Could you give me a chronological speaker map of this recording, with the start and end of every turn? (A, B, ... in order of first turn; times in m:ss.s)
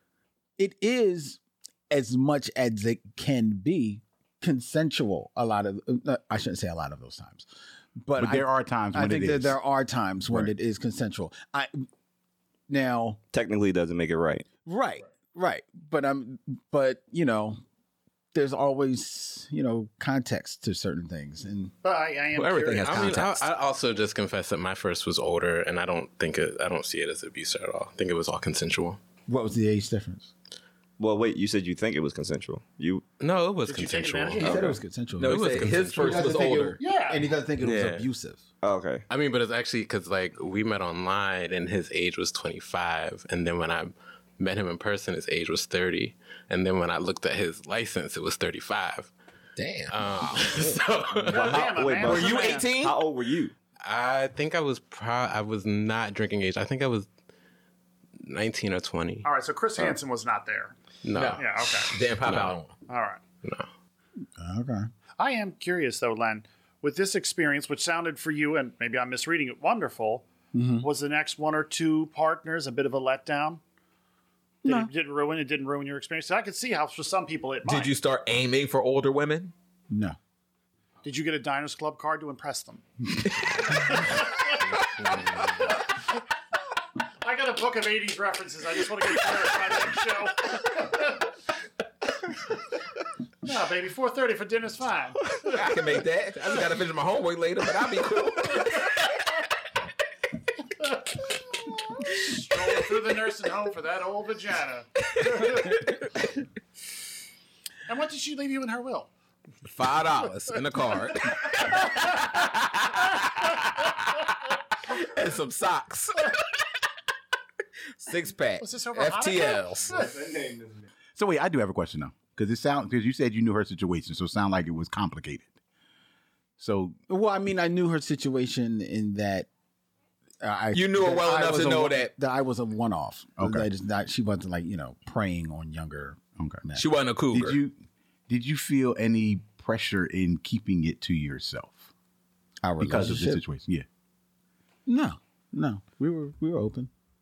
0:00.6-0:07.5 A
0:08.0-0:11.9 A
0:08.2-0:09.6 B
0:12.7-0:13.2 A
0:13.3-0:14.5 C
0:14.6-0:17.6 A
0:18.3-0:21.7 A
0:21.8-0:23.2 D
0:22.4-0:29.0 E
0:22.6-0:23.5 F
0:29.3-0:30.3 A
0:31.0-0:33.0 C
0:33.2-0:36.5 E
0:33.7-0:34.7 D
0:34.4-0:38.4 A
0:35.2-0:36.8 F
0:36.8-0:37.3 D
0:37.6-0:38.1 E
0:38.6-0:39.0 C
0:39.1-0:49.1 E
0:49.6-0:50.7 F
0:49.9-0:51.6 E
0:51.2-0:52.7 D
0:51.3-0:53.0 F
0:51.5-0:53.5 C
0:53.8-0:57.1 E
0:58.2-0:59.3 E
0:59.2-1:00.7 D
1:01.0-1:02.6 E
1:01.1-1:02.7 F
1:01.4-1:01.9 D
1:02.9-1:03.2 D
1:04.4-1:04.9 A
1:05.2-1:10.3 D
1:10.5-1:10.9 A
1:10.8-1:13.6 D
1:14.6-1:14.9 A
1:14.7-1:17.9 D
1:17.7-1:19.5 F
1:19.9-1:20.2 A
1:21.0-1:22.8 D
1:23.6-1:24.6 D
1:24.8-1:25.7 E
1:25.6-1:26.0 D
1:27.2-1:31.3 D
1:33.4-1:35.7 D
1:35.5-1:38.9 F
1:40.8-1:41.2 D
1:41.8-1:45.9 D
1:47.9-1:49.1 D
1:49.6-1:54.3 F
1:51.6-1:52.4 D
1:54.8-1:56.3 F
1:58.0-1:59.9 F
1:58.6-2:00.3 D
1:59.9-2:00.8 A
2:01.2-2:05.5 B
2:06.6-2:07.0 B
2:07.1-2:09.5 A
2:10.4-2:16.8 A
2:10.7-2:12.1 F
2:13.4-2:13.7 B
2:16.4-2:16.6 B
2:16.8-2:17.6 F
2:17.3-2:21.9 B
2:22.6-2:23.4 A
2:22.8-2:23.9 B
2:24.9-2:26.9 A